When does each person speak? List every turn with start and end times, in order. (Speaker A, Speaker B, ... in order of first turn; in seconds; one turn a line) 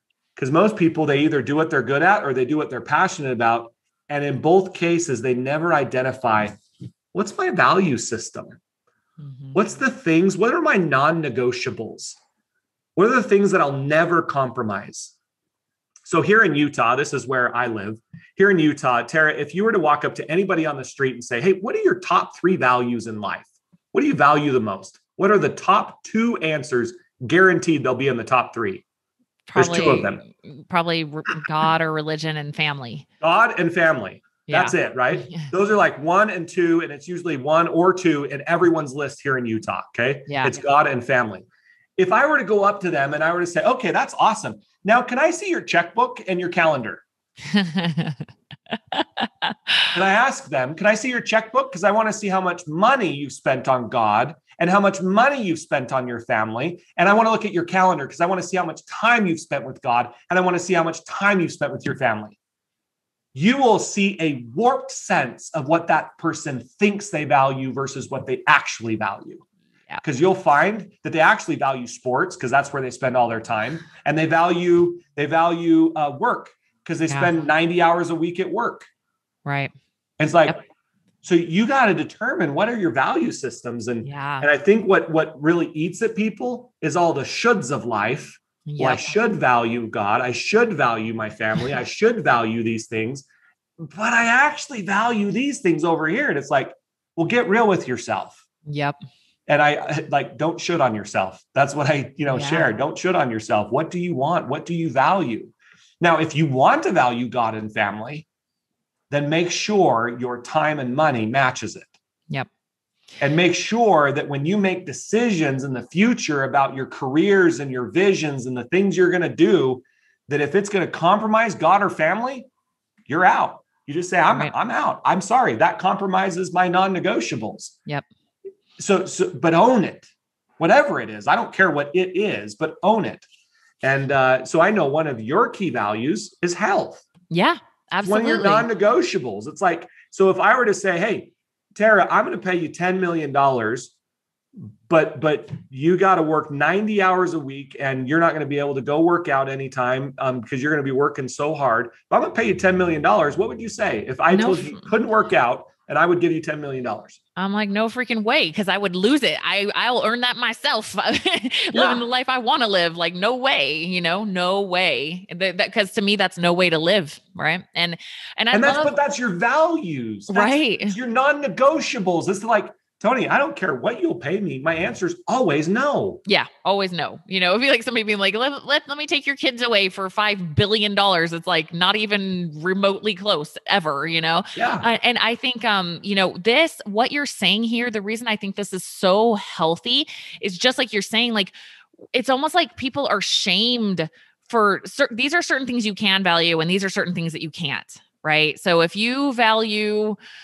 Speaker A: 0.3-6.6
Speaker A: 7.1-8.6
Speaker B: 9.2-9.6
Speaker A: 9.5-12.2
Speaker A: 12.9-15.1
Speaker A: 16.0-28.8
Speaker B: 29.5-33.0
Speaker A: 29.5-30.2
Speaker A: 33.2-41.5
Speaker B: 34.5-34.7
Speaker B: 40.3-40.6
Speaker A: 42.0-47.0
Speaker B: 47.5-48.2
Speaker B: 48.9-49.9
Speaker A: 49.9-62.4
Speaker A: 63.3-69.4
Speaker A: 70.0-78.9
Speaker B: 77.1-77.3
Speaker B: 79.4-79.7
Speaker A: 80.2-80.6
Speaker A: 81.2-93.2
Speaker B: 84.0-84.5
Speaker B: 88.7-89.1
Speaker A: 93.8-98.4
Speaker B: 98.7-99.0
Speaker A: 99.5-108.2
Speaker B: 102.3-102.7
Speaker A: 109.1-111.9
Speaker A: 113.2-122.5
Speaker A: 123.1-127.7
Speaker A: 128.8-133.2
Speaker A: 133.8-137.1
Speaker B: 137.3-138.7
Speaker A: 138.0-143.9
Speaker A: 144.9-157.2
Speaker B: 154.3-154.9
Speaker B: 157.3-168.9
Speaker A: 161.7-162.0
Speaker A: 168.5-176.2
Speaker B: 170.3-171.0
Speaker B: 176.2-191.5
Speaker A: 184.6-184.9
Speaker B: 192.1-200.2